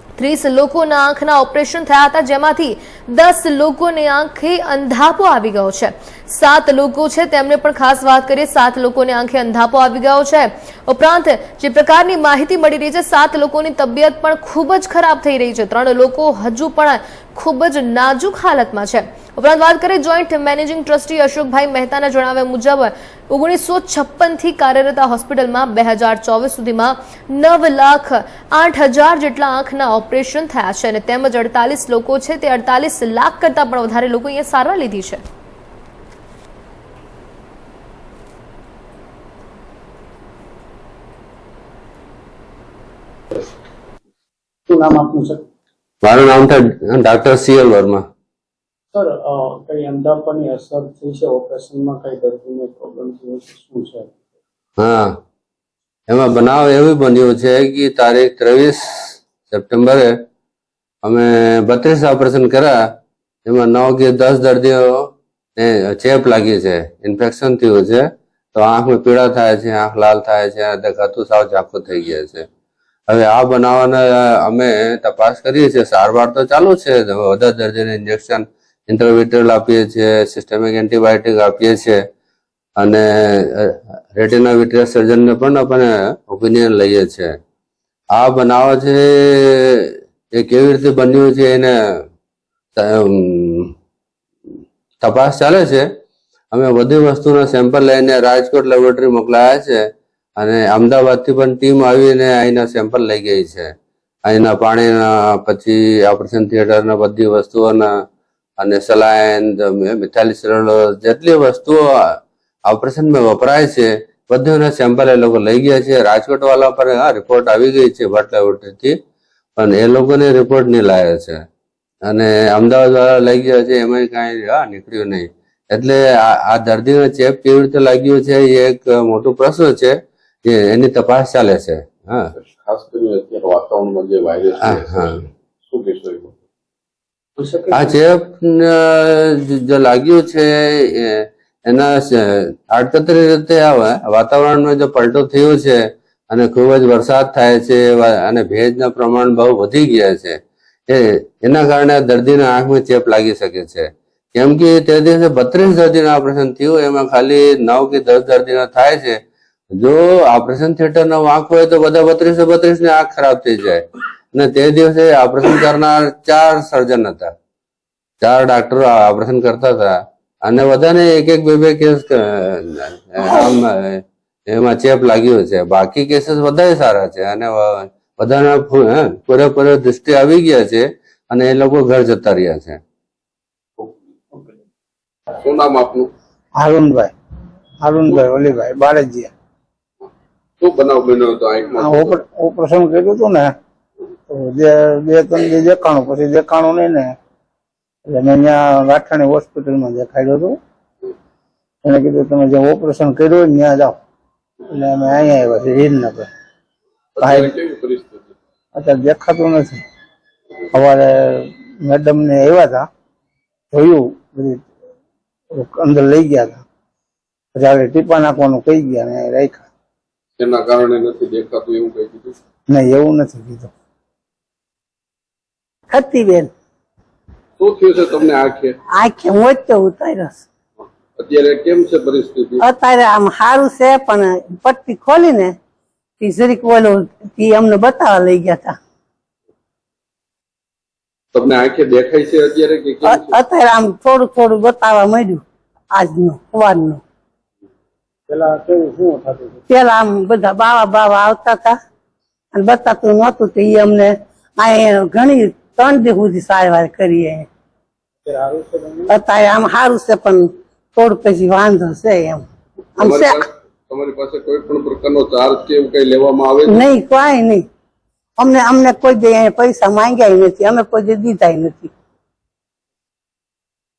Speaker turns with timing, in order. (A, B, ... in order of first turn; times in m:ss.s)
0:00.2-0:35.2 A
0:44.7-0:45.4 B
0:46.0-0:48.0 C
0:48.9-0:54.1 B
0:54.8-0:55.1 C
0:56.1-0:58.8 C
0:59.5-1:00.1 C
1:01.0-1:02.8 C
1:03.4-1:12.5 C
1:13.1-1:22.0 C
1:22.8-1:27.3 C
1:28.2-1:31.7 C
1:32.8-1:33.7 C
1:35.0-1:35.8 C
1:36.5-1:39.8 C
1:40.4-1:43.7 C
1:44.3-1:47.9 C
1:48.6-1:51.8 C
1:52.7-1:59.0 C
1:59.6-2:01.4 C
2:02.1-2:09.9 C
2:10.4-2:12.3 C
2:12.3-2:16.4 D
2:14.7-2:15.1 C
2:17.4-2:17.9 B
2:17.7-2:25.8 C
2:26.3-2:39.2 C
2:39.8-2:47.3 C
2:48.2-3:02.8 C
3:05.4-3:06.1 D
3:06.6-3:07.1 E
3:07.8-3:09.3 E
3:10.6-3:12.2 D
3:11.8-3:13.5 E
3:14.3-3:17.1 E
3:18.1-3:20.6 E
3:21.8-3:23.9 E
3:24.7-3:26.3 E
3:27.2-3:28.3 D
3:27.2-3:27.5 E
3:28.7-3:29.8 E
3:30.7-3:32.9 E
3:33.7-3:34.6 E
3:35.5-3:36.6 E
3:37.5-3:39.6 E
3:40.4-3:42.4 D
3:42.7-3:43.7 E
3:45.9-3:46.5 F
3:47.6-3:48.8 D
3:48.9-3:50.4 F
3:51.2-3:52.6 D
3:52.6-3:55.5 F
3:56.2-3:58.8 F
4:01.3-4:03.4 D
4:03.0-4:07.0 F
4:08.3-4:09.6 B
4:09.7-4:11.8 F
4:12.5-4:17.5 F
4:18.2-4:19.1 B
4:19.1-4:22.4 F
4:23.0-4:23.4 F
4:23.0-4:26.9 D
4:26.7-4:27.6 F
4:28.4-4:31.9 F